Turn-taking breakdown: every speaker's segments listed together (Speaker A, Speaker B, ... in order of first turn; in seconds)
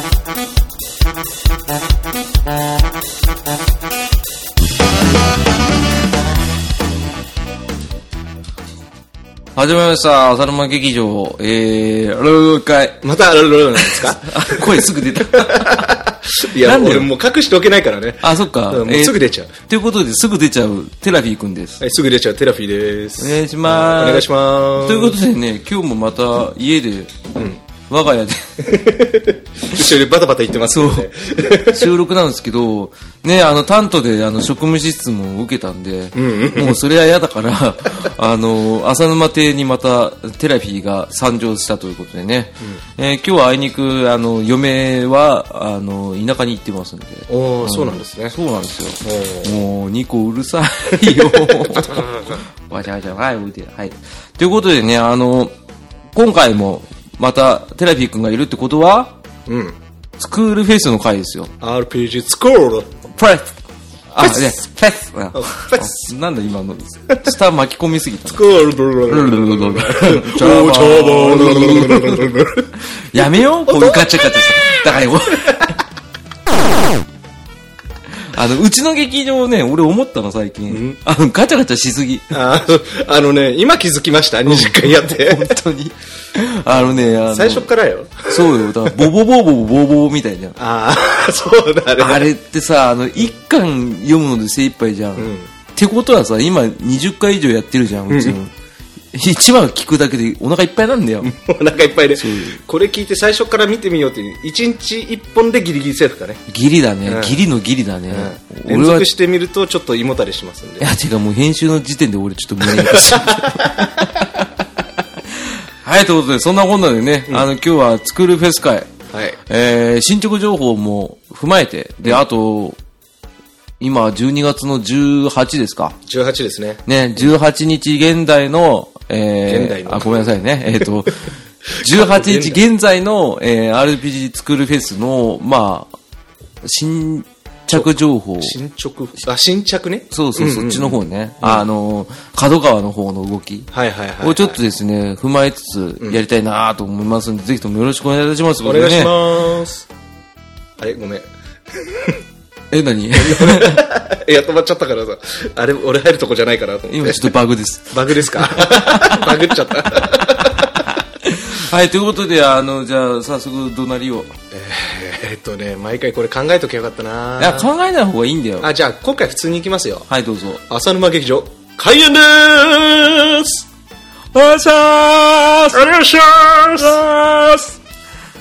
Speaker A: 9.6-13.0, 13.8-16.0, 16.5-17.1, 18.2-21.8, 23.2-27.2, 27.9-28.8, 30.7-55.5, 56.1-59.1, 60.2-61.5, 63.1-63.6, 64.1-68.5, 69.1-75.8, 78.2-82.3, 84.5-87.7, 88.3-90.6, 92.0-98.5, 99.1-101.3, 102.1-102.6, 106.5-109.1, 110.8-114.5, 115.3-118.9, 119.5-122.8, 123.8-126.0, 126.9-135.9, 136.6-138.6, 140.1-149.2, 152.7-153.9, 156.9-164.3, 167.4-168.7, 170.1-170.6, 174.3-177.8
Speaker B: 13.0-19.5, 21.8-25.2, 27.4-27.6, 28.6-31.9, 36.1-36.8, 47.3-48.4, 49.0-49.5, 50.9-52.4, 59.5-59.8, 61.6-62.9, 64.2-64.5, 65.3-66.1, 68.3-74.2, 75.3-75.8, 80.7-81.0, 82.3-85.6, 86.7-89.1, 90.6-92.3, 95.2-95.5, 98.1-98.4, 101.2-106.4, 107.0-107.4, 108.1-110.9, 112.6-114.1, 119.1-119.4, 126.1-127.2, 129.5-130.9, 131.8-132.6, 137.7-141.7, 143.7-144.6, 148.6-149.9, 150.8-152.2, 153.2-157.3, 157.9-160.9, 164.5-167.7, 168.6-170.1, 170.7-173.6, 175.7-177.0